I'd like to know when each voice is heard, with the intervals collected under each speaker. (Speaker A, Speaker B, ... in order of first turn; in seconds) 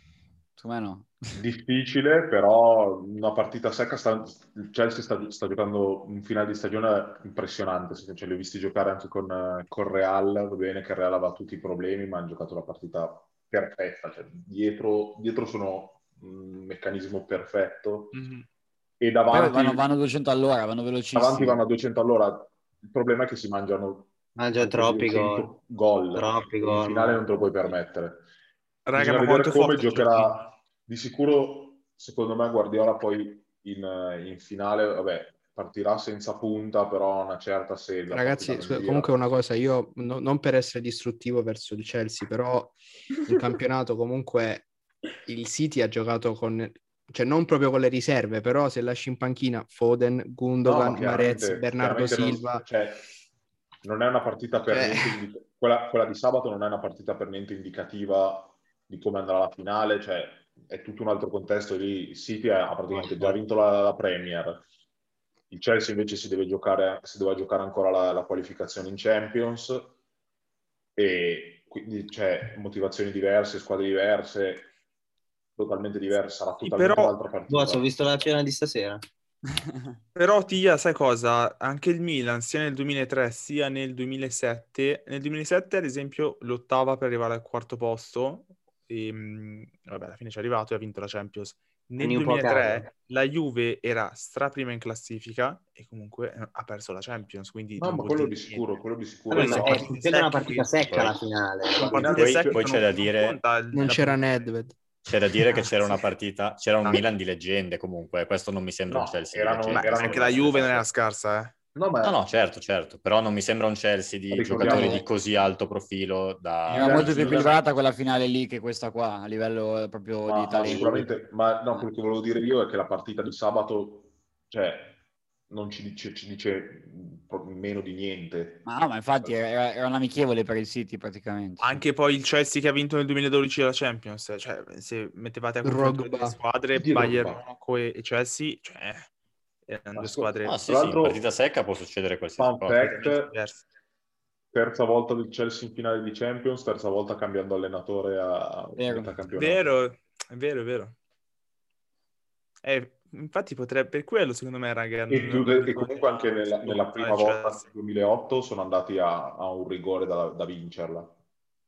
Speaker A: 0.6-1.2, 19.3-21.6, 114.6-115.0, 116.7-121.2, 128.7-131.8, 148.8-149.1
Speaker B: 1.4-18.3, 19.0-19.8, 21.1-28.3, 28.9-39.1, 50.6-53.1, 53.8-64.6, 65.5-70.0, 71.0-74.7, 75.6-77.8, 97.8-100.0, 101.8-102.7, 108.9-110.9, 111.8-112.2, 114.3-115.1, 116.7-117.6, 120.3-125.0, 125.5-128.7, 136.8-137.4, 139.9-141.3, 142.4-143.4, 144.5-149.7, 155.1-161.1
Speaker C: 18.1-18.4, 28.9-30.5, 76.6-77.1, 80.2-101.1, 101.8-104.2, 109.7-111.5, 131.6-139.1, 139.7-140.6, 142.8-143.6, 149.3-151.0, 152.6-157.7
Speaker D: 24.4-25.6, 26.1-27.2, 77.5-79.0, 92.0-92.9, 99.3-102.2
Speaker E: 38.1-44.7, 45.3-52.7, 54.7-55.2, 103.7-104.8, 135.6-136.4
Speaker F: 102.2-103.4, 105.1-110.5, 112.0-117.5, 140.4-143.0